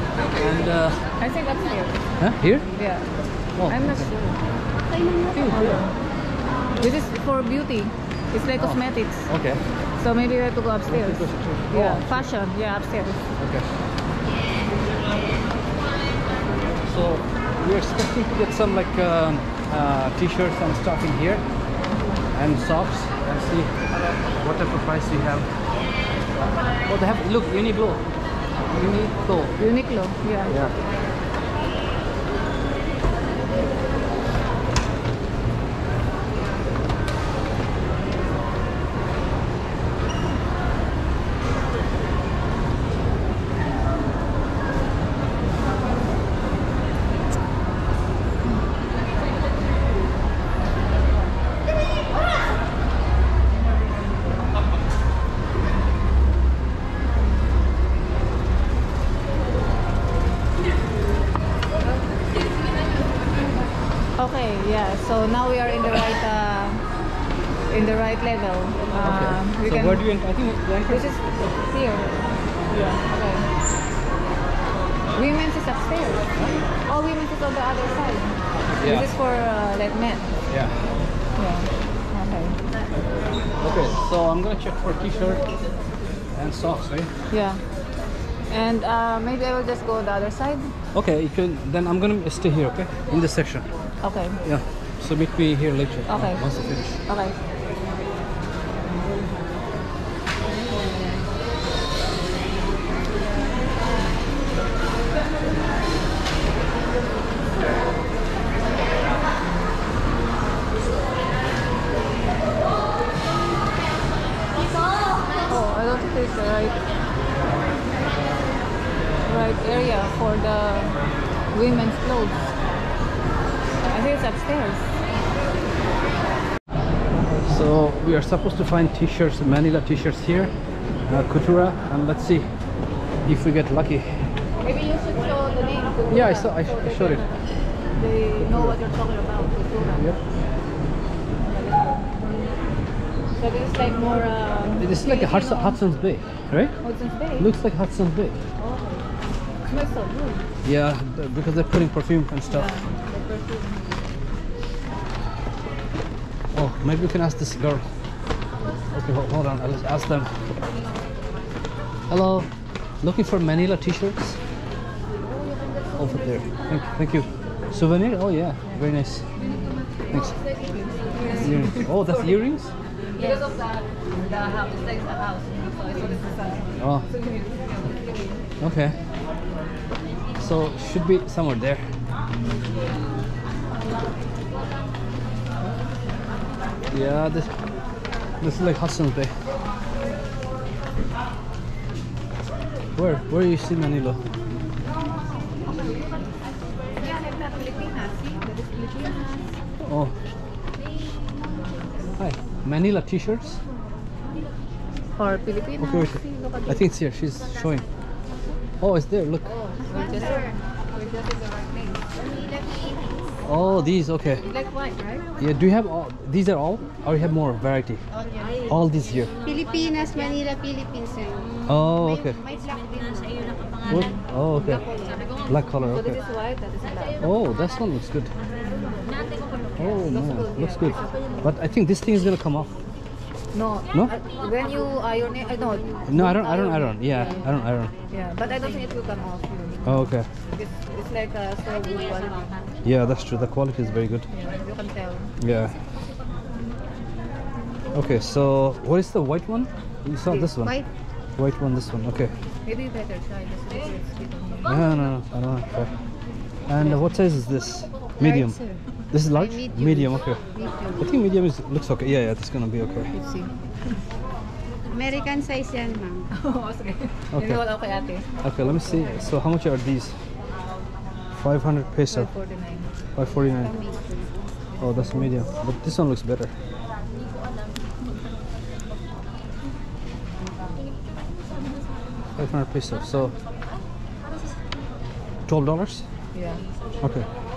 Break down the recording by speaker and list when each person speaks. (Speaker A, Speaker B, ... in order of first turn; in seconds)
Speaker A: 0.3-1.0, 2.2-2.7, 3.5-4.1, 5.3-5.8, 8.6-9.6, 10.9-12.3, 13.4-13.7, 16.9-21.4, 22.3-23.8, 24.4-25.5, 26.9-28.0, 28.7-29.6, 30.5-30.7, 69.0-71.2, 78.7-79.1, 80.5-81.0, 83.6-85.5, 86.3-87.1, 90.9-93.7, 94.4-97.0, 127.5-130.5, 131.1-132.5, 133.2-134.2, 136.1-137.2, 138.4-138.8, 144.8-146.8, 147.3-148.4, 150.6-152.7, 156.5-157.8, 158.9-160.4, 162.1-162.5, 163.0-164.4, 166.0-169.3, 170.1-170.3, 171.4-172.7, 176.8-177.0, 178.6-178.9, 180.4-181.9, 186.9-187.5, 188.4-189.3, 192.9-194.2, 199.8-200.1, 202.2-203.6, 205.8-207.8, 208.8-209.4, 213.4-214.4, 215.4-218.0, 218.7-219.3, 221.7-222.4, 223.9-224.8, 225.4-226.2, 227.2-228.3, 229.8-232.7, 236.1-237.9, 239.8-240.3, 242.8-244.3, 245.4-245.8, 247.9-250.8, 251.4-252.3, 254.7-255.9, 256.7-258.6, 259.1-260.4, 261.0-263.1, 267.3-267.6, 268.4-270.1, 271.4-272.3, 273.1-273.7, 274.8-276.5, 282.4-283.3, 285.5-286.1, 287.0-287.3
Speaker B: 1.2-2.0, 2.7-3.1, 3.7-4.4, 5.5-5.9, 6.8-9.3, 10.0-13.3, 29.6-30.5, 64.2-66.8, 67.7-70.0, 70.9-73.5, 75.1-76.2, 76.8-80.3, 81.4-82.6, 87.3-87.6, 88.5-90.7, 94.0-94.4, 96.1-96.5, 97.0-97.4, 115.5-116.8, 119.2-121.0, 121.5-122.5, 123.8-124.9, 134.6-137.3, 138.0-140.0, 141.4-142.1, 143.4-145.8, 146.8-147.5, 148.6-149.0, 149.7-150.4, 152.5-152.9, 165.7-166.0, 169.4-169.8, 170.4-172.3, 173.2-178.4, 195.7-196.2, 197.0-199.2, 205.2-206.8, 209.4-211.9, 214.4-215.2, 223.9-225.1, 225.8-227.2, 230.0-231.4, 233.5-237.5, 238.1-242.7, 244.3-245.3, 252.7-254.7, 256.8-257.1, 263.1-263.6, 266.3-268.3, 272.1-272.9, 286.3-286.6
Speaker C: 4.9-5.3, 197.0-199.3, 209.8-210.6, 212.0-213.4, 218.1-218.7, 219.4-223.8, 250.3-250.9, 258.2-261.1, 264.9-266.3, 273.4-275.1